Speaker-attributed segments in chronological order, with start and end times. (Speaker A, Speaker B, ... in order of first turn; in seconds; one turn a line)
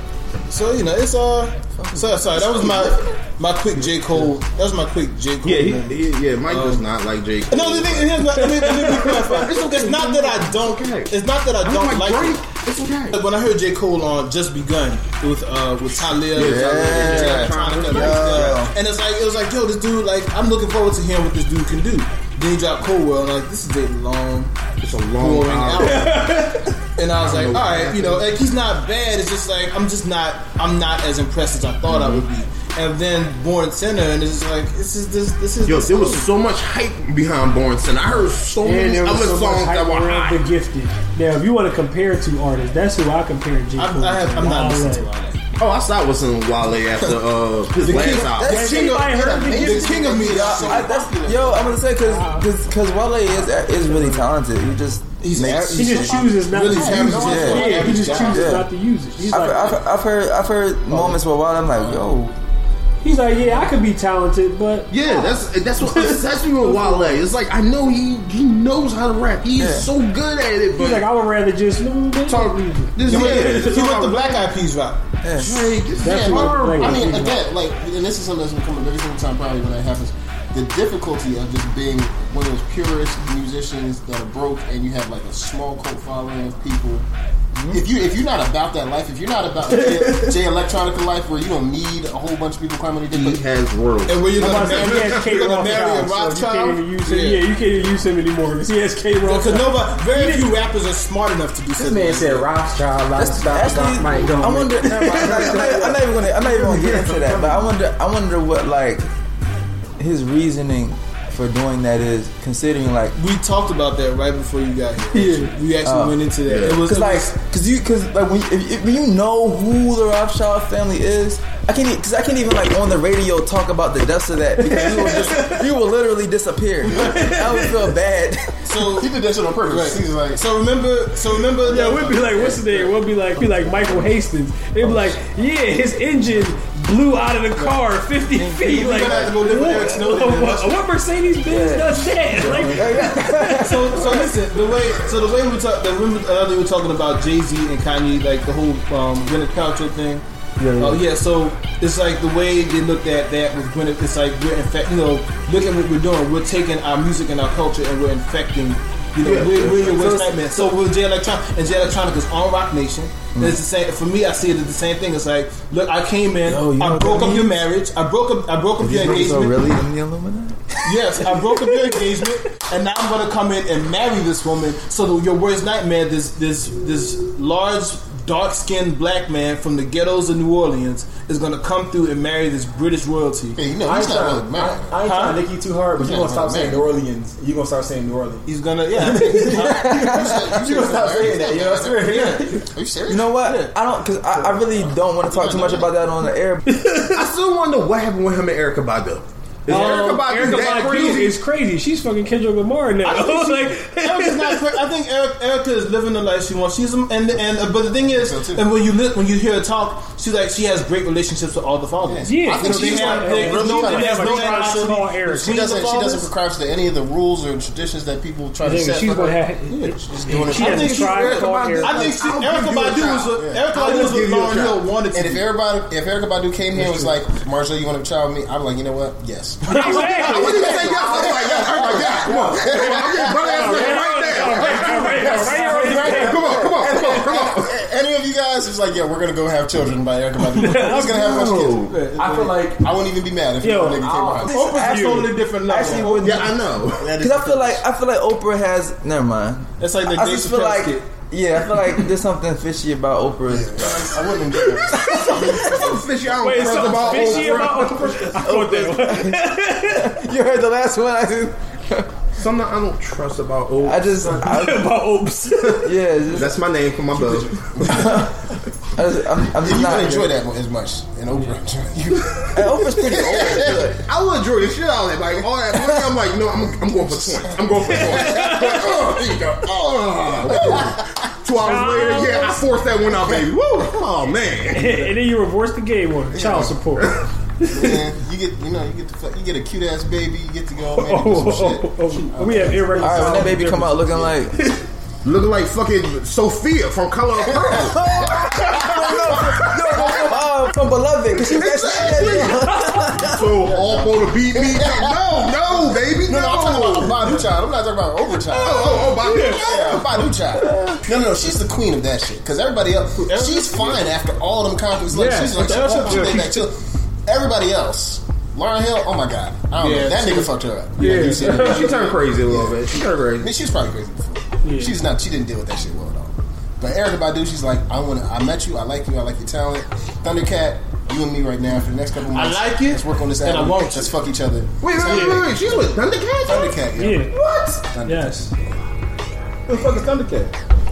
Speaker A: 0.5-6.8
Speaker B: 1.7-2.1
Speaker C: 2.3-3.1
Speaker C: 3.7-4.3
Speaker C: 5.4-13.2
Speaker A: 7.5-12.4
Speaker D: 8.4-9.5
Speaker A: 13.1-24.5
Speaker C: 16.3-18.7
Speaker B: 16.4-18.7
Speaker C: 24.8-26.4
Speaker A: 25.1-26.2
Speaker D: 25.8-26.8
Speaker A: 27.0-36.2
Speaker C: 27.1-28.4
Speaker C: 31.9-32.2
Speaker C: 35.6-40.4
Speaker D: 38.6-45.1
Speaker A: 43.8-45.4
Speaker C: 45.5-48.8
Speaker A: 47.8-50.7
Speaker D: 48.3-50.0
Speaker E: 48.4-51.9
Speaker C: 49.8-50.2
Speaker B: 50.2-55.2
Speaker A: 55.2-58.5
Speaker C: 55.4-55.8
Speaker D: 55.7-59.7
Speaker E: 56.7-58.3
Speaker B: 57.1-58.7
Speaker B: 59.3-62.3
Speaker A: 60.9-61.2
Speaker D: 63.0-67.2
Speaker C: 64.9-71.1
Speaker B: 69.6-69.9
Speaker D: 70.7-73.8
Speaker C: 72.2-74.5
Speaker A: 73.0-75.0
Speaker B: 75.2-75.8
Speaker C: 75.3-77.3
Speaker E: 75.9-87.1
Speaker D: 76.0-77.3
Speaker A: 87.5-87.8
Speaker E: 87.7-93.4
Speaker D: 89.7-90.4
Speaker C: 93.1-95.8
Speaker A: 94.1-97.4
Speaker D: 94.4-100.5
Speaker A: 99.2-102.5
Speaker F: 101.7-107.7
Speaker B: 103.1-109.0
Speaker D: 104.8-105.8
Speaker B: 110.0-113.1
Speaker A: 113.2-117.3
Speaker D: 115.1-115.5
Speaker B: 115.8-128.6
Speaker C: 116.4-116.9
Speaker D: 124.6-125.6
Speaker D: 126.9-127.7
Speaker A: 128.6-129.1
Speaker E: 128.8-130.4
Speaker A: 129.7-132.9
Speaker D: 131.7-144.2
Speaker A: 138.3-140.8
Speaker B: 141.4-144.1
Speaker F: 142.4-143.1
Speaker A: 143.6-150.2
Speaker D: 150.6-150.9
Speaker A: 150.8-169.6
Speaker C: 159.2-160.2
Speaker B: 159.9-160.7
Speaker B: 163.3-163.6
Speaker B: 166.4-167.6
Speaker B: 168.8-172.1
Speaker A: 170.8-183.6
Speaker E: 183.6-185.1
Speaker F: 183.8-192.6
Speaker A: 185.0-185.4
Speaker E: 185.9-186.8
Speaker A: 188.4-190.0
Speaker E: 189.3-193.4
Speaker B: 189.8-190.6
Speaker A: 191.9-192.5
Speaker B: 193.1-196.6
Speaker A: 193.4-193.7
Speaker E: 194.8-195.9
Speaker D: 196.7-197.2
Speaker C: 197.0-201.4
Speaker D: 199.7-204.7
Speaker A: 199.7-200.0
Speaker A: 203.0-216.3
Speaker E: 208.0-208.7
Speaker E: 212.0-219.4
Speaker D: 212.2-215.7
Speaker D: 218.6-222.1
Speaker A: 219.7-220.7
Speaker E: 220.0-221.3
Speaker C: 220.2-224.8
Speaker A: 221.8-225.5
Speaker E: 223.3-241.9
Speaker A: 229.7-229.9
Speaker D: 229.7-230.8
Speaker C: 230.2-235.5
Speaker D: 233.4-236.4
Speaker F: 235.5-237.3
Speaker C: 236.0-237.7
Speaker D: 240.6-241.2
Speaker C: 240.7-242.1
Speaker A: 241.9-242.6
Speaker F: 242.1-242.8
Speaker E: 242.6-244.6
Speaker D: 243.6-244.2
Speaker F: 244.1-244.3
Speaker B: 244.4-246.5
Speaker A: 244.5-246.3
Speaker E: 246.0-246.3
Speaker C: 246.1-247.2
Speaker E: 247.0-247.8
Speaker B: 247.2-255.8
Speaker A: 249.8-251.1
Speaker E: 253.5-256.0
Speaker D: 255.2-255.7
Speaker C: 255.6-258.3
Speaker D: 256.4-260.1
Speaker E: 256.6-258.3
Speaker B: 258.5-262.1
Speaker C: 262.3-264.3
Speaker B: 263.8-265.0
Speaker D: 264.2-265.9
Speaker B: 265.8-266.6
Speaker C: 266.3-268.1
Speaker E: 267.2-268.2
Speaker B: 267.8-268.3
Speaker B: 268.9-270.3
Speaker E: 269.6-273.9
Speaker B: 272.5-274.0
Speaker C: 273.3-285.0
Speaker B: 275.7-276.0
Speaker E: 277.1-279.0
Speaker D: 278.0-279.1
Speaker E: 279.6-281.1
Speaker D: 281.6-282.6
Speaker E: 283.1-283.9
Speaker D: 284.7-288.0
Speaker E: 286.3-286.9
Speaker E: 287.7-294.3
Speaker D: 291.0-294.2
Speaker B: 292.9-294.6
Speaker C: 295.2-300.3
Speaker E: 297.5-297.9
Speaker B: 297.7-303.6
Speaker E: 299.1-300.2
Speaker C: 301.4-302.7
Speaker E: 301.5-302.6
Speaker D: 302.8-303.0
Speaker C: 303.2-307.4
Speaker E: 304.5-338.4
Speaker C: 308.5-310.3
Speaker B: 310.7-311.0
Speaker A: 313.2-314.2
Speaker D: 315.1-316.5
Speaker A: 315.3-316.6
Speaker A: 319.8-321.6
Speaker D: 321.0-321.8
Speaker C: 321.4-323.5
Speaker D: 324.6-324.9
Speaker A: 332.3-334.2
Speaker C: 334.8-336.9
Speaker D: 335.0-335.4
Speaker D: 336.9-337.3
Speaker C: 337.4-337.7
Speaker D: 338.0-338.5
Speaker F: 339.7-340.5